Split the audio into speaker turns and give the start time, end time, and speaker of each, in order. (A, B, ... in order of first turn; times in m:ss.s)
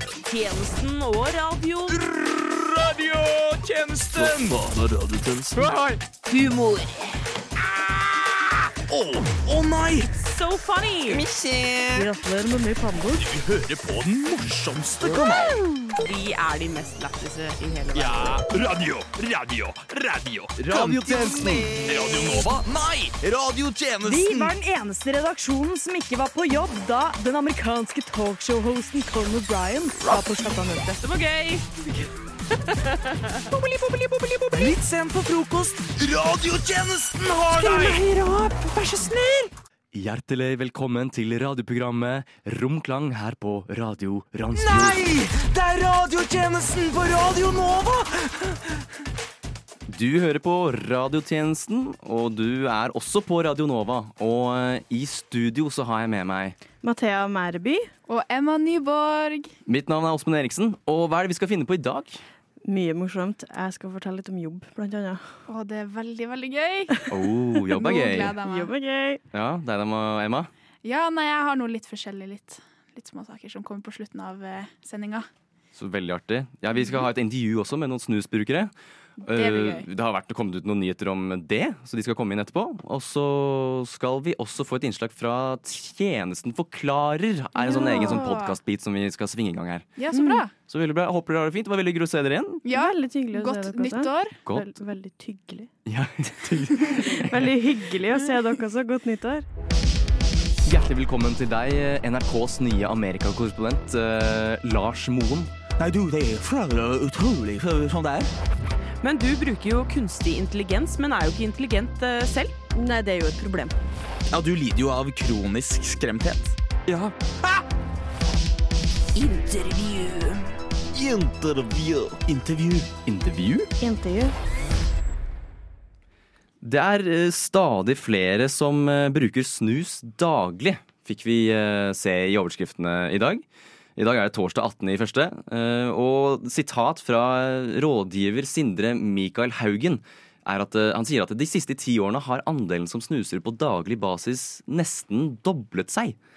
0:00.2-0:02.0 A
0:01.9-0:06.0 B
0:04.2-0:04.5 C
0:06.3-0:07.2 A
0:08.9-0:10.1 B
0:10.1-0:11.3 A
0:11.2-0:12.0 B
0:11.9-0:13.3 D
0:13.1-0:15.6 B
0:15.9-0:18.4 A
0:17.9-0:24.5 B
0:20.9-0:21.5 D
0:24.0-0:31.0 D
0:31.0-0:31.9 A
0:32.7-0:33.3 A
0:33.5-0:34.8 D
0:34.5-0:38.0 B
0:37.6-0:39.5 D
0:39.9-0:45.1 C
0:44.6-0:48.5 B
0:49.9-0:56.6 C
0:56.8-0:57.9 E
0:58.1-0:59.5 F
0:59.6-1:02.2 C
1:02.6-1:05.2 E
1:05.5-1:07.1 F
1:07.1-1:08.4 C
1:07.7-1:08.7 F
1:08.4-1:09.2 E
1:09.3-1:10.5 C
1:10.8-1:15.3 F
1:15.7-1:18.7 C
1:19.2-1:29.9 C
1:19.3-1:19.9 F
1:27.6-1:28.3 E
1:27.6-1:28.6 F
1:30.0-1:30.5 F
1:30.1-1:30.4 E
1:30.6-1:32.6 C
1:32.6-1:34.4 F
1:32.7-1:35.7 E
1:34.4-1:34.7 C
1:35.8-1:37.5 C
1:36.7-1:39.4 E
1:40.6-1:45.5 C
1:45.8-1:48.3 B
1:49.0-1:52.5 A
1:52.7-1:53.8 E
1:54.3-1:56.9 B
1:59.1-2:00.5 A
2:00.9-2:02.9 B
2:03.0-2:03.7 C
2:03.8-2:04.3 E
2:06.6-2:13.4 C
2:14.0-2:26.2 C